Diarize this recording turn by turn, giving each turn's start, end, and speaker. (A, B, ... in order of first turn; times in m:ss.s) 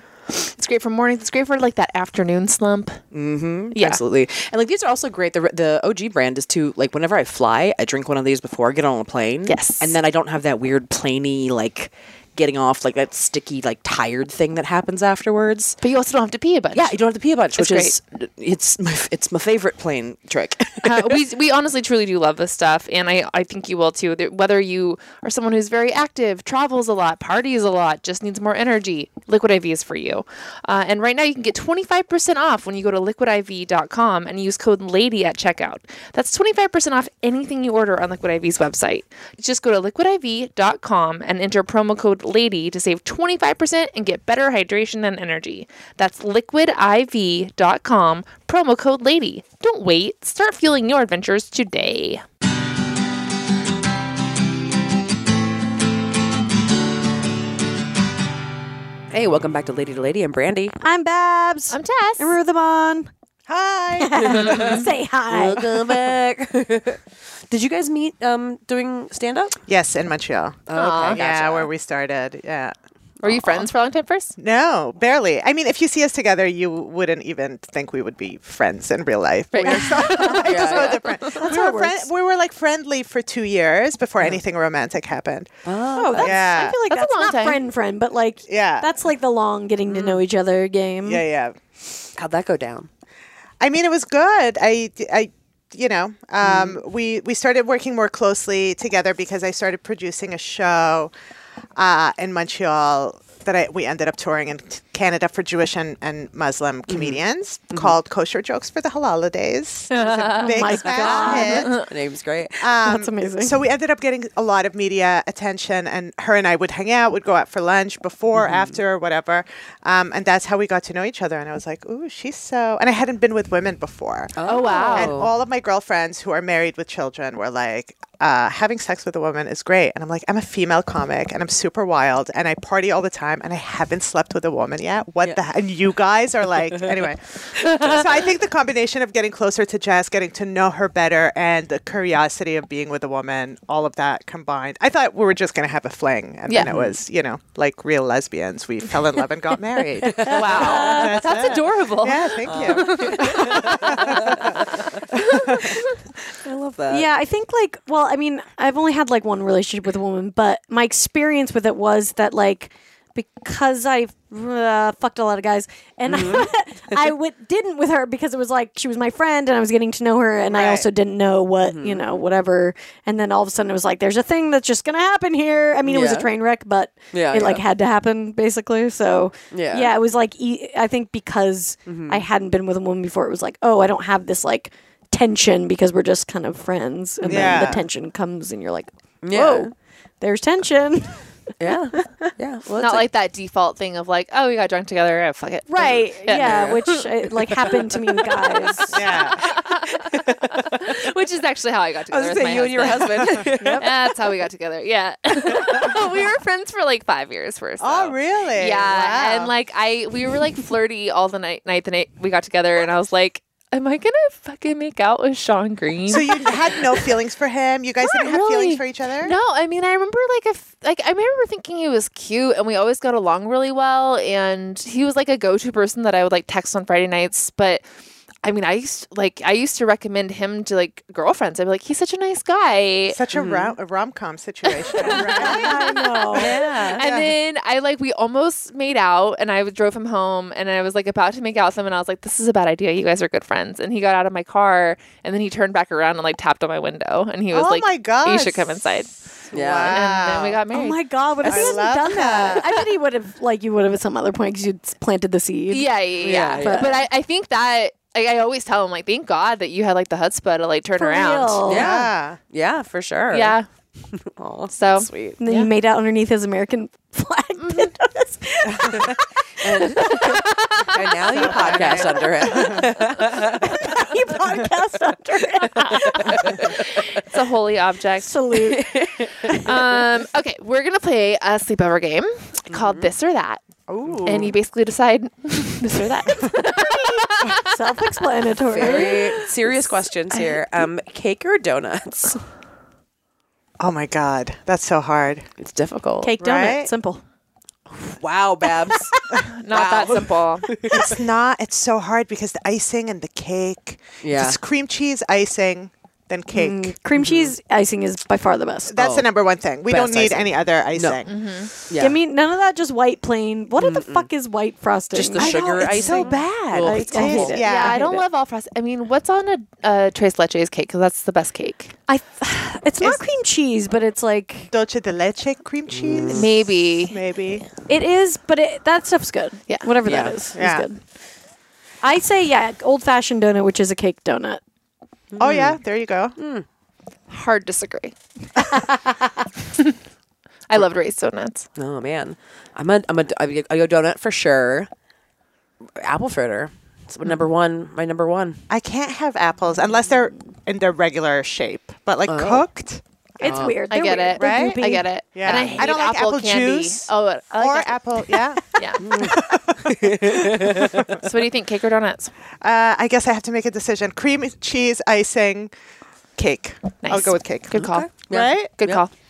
0:00.3-0:03.0 A
0:03.1-0:15.8 B
0:03.8-0:04.0 A
0:09.5-0:10.0 A
0:15.8-0:17.0 A
0:16.7-0:21.2 B
0:17.5-0:17.9 A
0:20.8-0:52.2 A
0:59.1-1:00.8 B
1:00.8-1:03.1 C
1:01.7-1:02.4 A
1:03.5-1:04.8 D
1:04.0-1:05.8 C
1:04.3-1:09.6 B
1:09.7-1:12.8 D
1:10.7-1:11.7 B
1:10.7-1:11.2 A
1:13.2-1:14.3 A
1:14.4-1:25.5 D
1:19.5-1:21.5 A
1:20.2-1:21.0 B
1:21.3-1:22.1 C
1:25.7-1:26.4 B
1:25.9-1:31.2 C
1:26.2-1:26.8 D
1:26.6-1:27.7 A
1:28.5-1:28.9 D
1:29.9-1:30.2 B
1:31.0-1:31.6 D
1:32.2-1:32.9 B
1:33.6-1:41.1 D
1:36.4-1:36.8 B
1:41.8-1:51.8 D
1:46.9-1:47.2 B
1:49.9-1:51.9 A
1:50.4-1:51.7 C
1:50.9-1:52.7 B
1:52.6-2:35.8 D
1:52.8-1:53.6 C
1:58.4-1:58.8 B
2:04.4-2:05.3 B
2:04.4-2:05.2 A
2:16.8-2:18.1 B
2:26.5-2:26.7 A
2:26.6-2:27.0 B
2:30.0-2:31.2 B
2:30.2-2:34.0 A
2:30.5-2:31.2 C
2:32.4-2:34.8 B
2:36.3-2:37.1 B
2:36.9-3:11.3 C
2:46.1-2:47.0 B
2:50.5-2:50.9 D
2:51.6-2:52.0 B
2:55.8-2:56.3 B
2:57.1-2:57.6 B
2:59.5-2:59.9 B
3:01.9-3:02.2 B
3:07.2-3:07.7 B
3:07.3-3:07.8 D
3:09.2-3:09.7 B
3:11.6-3:13.1 B
3:12.0-3:12.3 C
3:12.8-3:17.0 A
3:15.7-3:19.0 C
3:16.3-3:17.0 B
3:18.9-3:19.5 D
3:19.0-3:37.1 A
3:19.9-3:21.0 B
3:22.1-3:24.2 B
3:23.5-3:23.9 C
3:27.8-3:29.5 D
3:36.1-3:39.4 D
3:38.0-3:47.8 A
3:48.4-3:53.2 A
3:53.1-3:57.4 D
3:53.3-3:53.8 B
3:54.7-4:09.2 A
3:55.0-3:56.5 C
3:56.3-3:57.0 B
4:07.5-4:10.6 D
4:09.5-4:10.0 B
4:09.8-4:11.0 A
4:10.7-4:15.9 C
4:11.4-4:12.7 D
4:15.7-4:21.8 A
4:16.2-4:17.0 B
4:16.6-4:16.9 C
4:21.0-4:21.9 C
4:21.6-4:23.6 B
4:21.7-4:22.4 D
4:23.3-4:23.7 A
4:24.1-4:25.4 B
4:24.7-4:25.7 A
4:25.4-4:31.0 C
4:27.6-4:27.9 A
4:28.8-4:34.0 B
4:31.4-4:32.8 D
4:31.4-4:32.1 A
4:32.3-4:36.8 C
4:36.2-4:36.9 B
4:36.5-4:38.4 A
4:38.2-4:38.9 C
4:38.5-4:39.8 B
4:39.5-4:43.6 A
4:42.7-4:43.1 B
4:43.9-4:44.6 D
4:44.2-4:47.6 A
4:46.4-4:49.5 C
4:48.7-4:52.4 B
4:48.8-4:49.3 A
4:50.3-4:50.6 A
4:53.8-4:55.5 D
4:55.6-4:56.4 B
4:56.2-4:57.2 C
4:56.4-4:56.9 D
4:57.9-5:01.2 B
4:59.5-5:00.7 A
5:00.9-5:06.9 D
5:04.2-5:04.6 B
5:06.5-5:09.0 C
5:07.2-5:07.5 B
5:08.9-5:11.4 D
5:09.0-5:09.3 B
5:09.9-5:11.2 B
5:11.3-5:11.7 A
5:11.9-5:12.2 B
5:12.0-5:16.0 C
5:13.8-5:14.3 B
5:15.1-5:17.6 B
5:15.4-5:18.0 D
5:15.9-5:16.4 A
5:16.8-5:18.2 C
5:17.6-5:22.0 A
5:22.1-5:24.7 C
5:24.7-5:27.7 D
5:25.9-5:26.5 B
5:26.3-5:27.2 A
5:27.9-5:31.0 C
5:30.0-5:30.4 B
5:30.6-5:30.9 D
5:32.0-5:34.6 C
5:35.3-5:35.8 B
5:35.4-5:36.4 D
5:36.4-5:36.7 B
5:37.3-5:38.8 A
5:40.7-5:41.7 A
5:41.8-5:44.9 B
5:46.0-5:48.6 B
5:48.7-5:53.6 D
5:52.3-5:52.6 B
5:53.4-5:55.0 C
5:53.4-5:53.8 B
5:53.9-5:58.0 A
5:54.4-6:01.2 D
5:55.4-5:55.9 B
5:58.7-5:59.2 A
5:59.0-6:01.2 B
6:01.2-6:02.3 A
6:02.6-6:05.7 D
6:06.4-6:08.7 D
6:07.0-6:09.1 A
6:07.8-6:09.0 B